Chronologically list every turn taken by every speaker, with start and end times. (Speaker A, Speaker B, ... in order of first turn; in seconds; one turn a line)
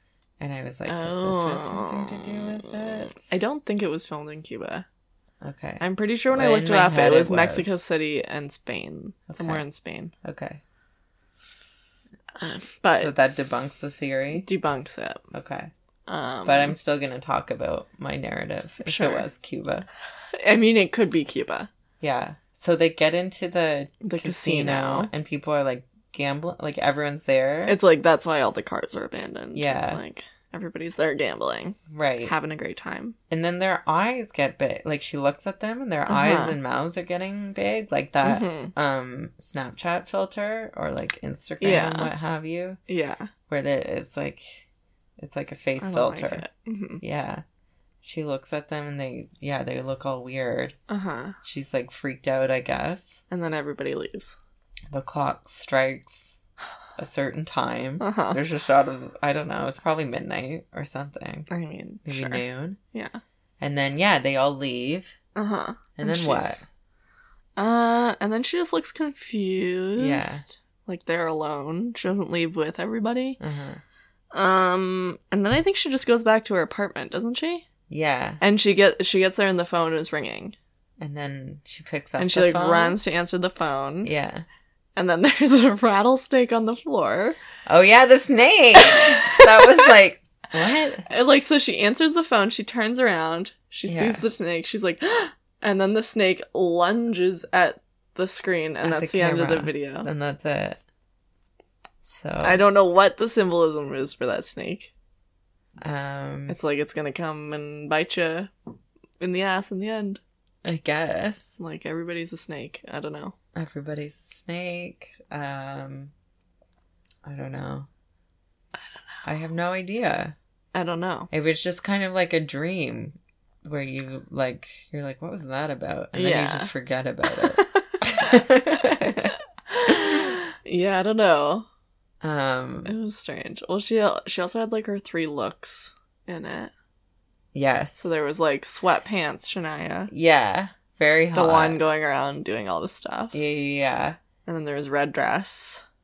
Speaker A: 0.4-3.4
Speaker B: 0.9-4.8
Speaker A: 5.4-7.8
Speaker B: 5.8-10.1
Speaker A: 9.3-9.6
Speaker A: 10.2-10.6
Speaker B: 12.4-13.1
Speaker A: 12.9-14.5
Speaker B: 14.3-15.2
Speaker A: 15.3-15.7
Speaker B: 16.1-16.8
Speaker A: 16.4-19.9
Speaker B: 18.8-19.2
Speaker B: 20.4-21.7
Speaker A: 22.0-27.8
Speaker B: 24.0-25.1
Speaker B: 27.6-33.1
Speaker A: 29.5-30.0
Speaker A: 31.9-32.3
Speaker A: 33.3-42.8
Speaker B: 36.1-36.6
Speaker B: 38.2-38.7
Speaker B: 41.6-42.1
Speaker B: 42.9-43.3
Speaker A: 43.5-44.7
Speaker A: 45.2-46.4
Speaker B: 45.8-47.0
Speaker A: 47.0-47.4
Speaker A: 48.0-50.8
Speaker B: 50.9-51.4
Speaker A: 51.4-53.2
Speaker B: 53.3-54.4
Speaker A: 54.9-56.4
Speaker A: 57.0-61.5
Speaker B: 58.0-58.4
Speaker B: 61.5-63.2
Speaker A: 62.0-62.8
Speaker A: 63.6-65.2
Speaker B: 65.3-66.6
Speaker A: 66.0-66.7
Speaker B: 67.6-73.4
Speaker A: 70.0-70.5
Speaker A: 73.4-73.8
Speaker B: 74.3-77.7
Speaker A: 77.9-78.4
Speaker B: 78.4-80.5
Speaker A: 81.0-83.0
Speaker B: 82.2-84.1
Speaker A: 84.0-84.5
Speaker B: 85.0-87.4
Speaker A: 87.7-91.0
Speaker B: 88.8-89.9
Speaker B: 91.0-100.1
Speaker A: 93.9-94.2
Speaker A: 98.8-100.8
Speaker A: 102.0-102.6
Speaker B: 102.4-104.9
Speaker A: 105.8-106.6
Speaker B: 106.5-108.5
Speaker B: 109.2-110.2
Speaker A: 110.6-111.6
Speaker B: 111.6-113.3
Speaker A: 113.5-116.1
Speaker A: 117.2-117.9
Speaker A: 119.2-120.3
Speaker B: 120.7-121.3
Speaker A: 121.3-130.3
Speaker B: 126.1-126.7
Speaker B: 127.4-128.2
Speaker B: 129.7-131.7
Speaker A: 132.2-132.9
Speaker B: 132.8-136.7
Speaker A: 137.5-138.2
Speaker B: 138.0-140.1
Speaker A: 140.1-141.8
Speaker B: 141.3-143.4
Speaker A: 143.3-144.2
Speaker B: 144.4-145.8